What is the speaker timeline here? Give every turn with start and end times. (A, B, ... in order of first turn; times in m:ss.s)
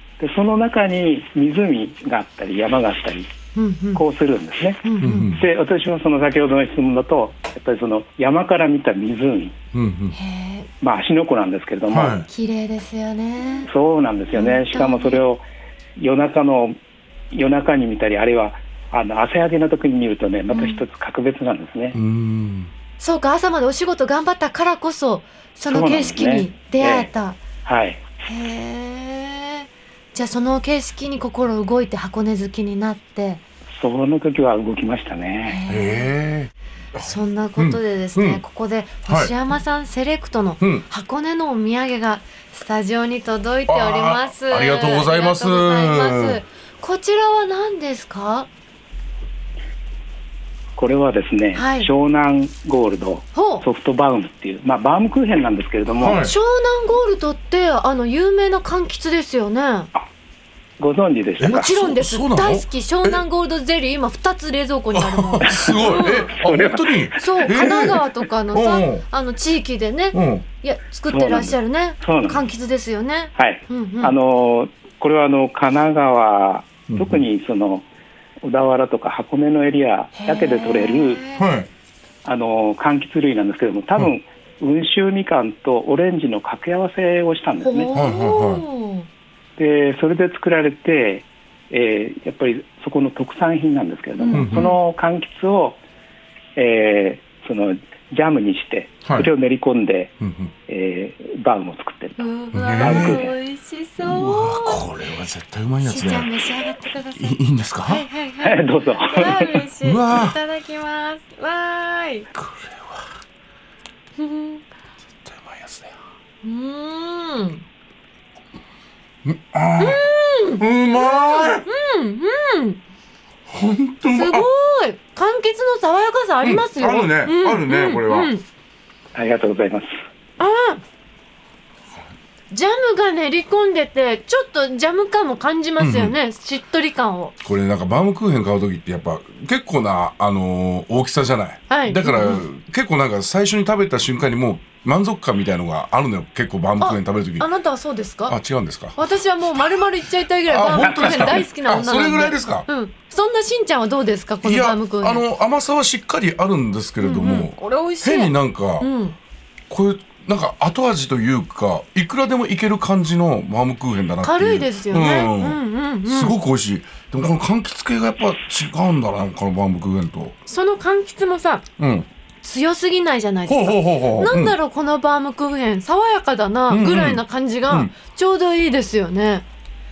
0:00.2-0:03.3 A
0:03.6-0:04.0 B
0:04.0-0:09.6 A
0:04.8-0:05.3 B
0:05.0-0:05.4 C
0:09.7-0:10.2 C
0:10.1-0:10.7 B
0:10.8-0:12.2 A
0:11.9-0:12.3 C
0:12.3-0:13.7 B
0:13.7-0:15.4 A
0:14.3-0:15.2 B
0:16.0-0:16.8 A
0:17.3-0:22.0 A
0:20.5-0:20.8 B
0:21.9-0:22.7 C
0:23.0-0:27.4 B
0:25.7-0:27.1 A
0:27.6-0:28.0 A
0:28.2-0:33.4 B
0:33.8-0:35.6 A
0:35.5-0:36.1 B
0:35.7-0:38.4 C
0:37.0-0:48.5 B
0:39.1-0:39.3 C
0:40.6-0:40.9 C
0:43.7-0:46.4 C
0:50.8-0:56.2 A
0:51.6-0:51.9 B
0:53.3-0:53.6 B
0:56.0-0:56.4 C
0:56.2-0:59.9 B
1:00.8-1:01.7 A
1:01.4-1:03.2 C
1:01.5-1:06.4 B
1:04.9-1:09.0 C
1:05.5-1:05.8 A
1:06.4-1:07.1 A
1:07.1-1:14.2 B
1:10.1-1:10.4 C
1:11.1-1:12.5 A
1:13.4-1:17.8 A
1:16.9-1:17.2 C
1:18.4-1:21.2 A
1:20.2-1:21.5 B
1:21.4-1:21.7 C
1:22.2-1:28.0 A
1:27.6-1:29.1 B
1:27.9-1:28.6 C
1:29.6-1:35.8 A
1:34.2-1:34.8 B
1:34.3-1:34.7 C
1:36.6-1:40.1 A
1:40.2-1:40.5 C
1:40.7-1:43.3 A
1:42.2-1:44.8 B
1:42.5-1:43.3 C
1:44.0-1:46.3 C
1:45.8-1:52.3 B
1:47.2-1:48.1 C
1:48.4-1:49.5 A
1:49.8-1:50.4 C
1:52.3-1:53.1 C
1:54.2-1:54.6 B
1:55.2-1:56.0 C
1:56.4-1:57.6 B
1:59.2-2:00.0 C
1:59.8-2:02.8 B
2:00.6-2:01.7 C
2:03.5-2:04.5 C
2:04.1-2:08.4 B
2:06.4-2:08.3 C
2:09.2-2:09.9 A
2:10.4-2:10.8 B
2:12.5-2:17.3 B
2:15.8-2:16.2 C
2:17.4-2:27.5 C
2:21.7-2:22.4 B
2:26.8-2:28.4 B
2:28.3-2:29.8 C
2:29.0-2:35.2 B
2:30.5-2:32.7 C
2:30.8-2:31.4 A
2:34.4-2:38.9 C
2:37.0-2:39.2 B
2:39.7-2:50.4 C
2:44.2-2:46.3 B
2:50.5-2:51.6 B
2:51.8-2:52.1 C
2:52.4-2:59.5 B
2:53.5-2:54.6 C
2:56.7-2:57.9 C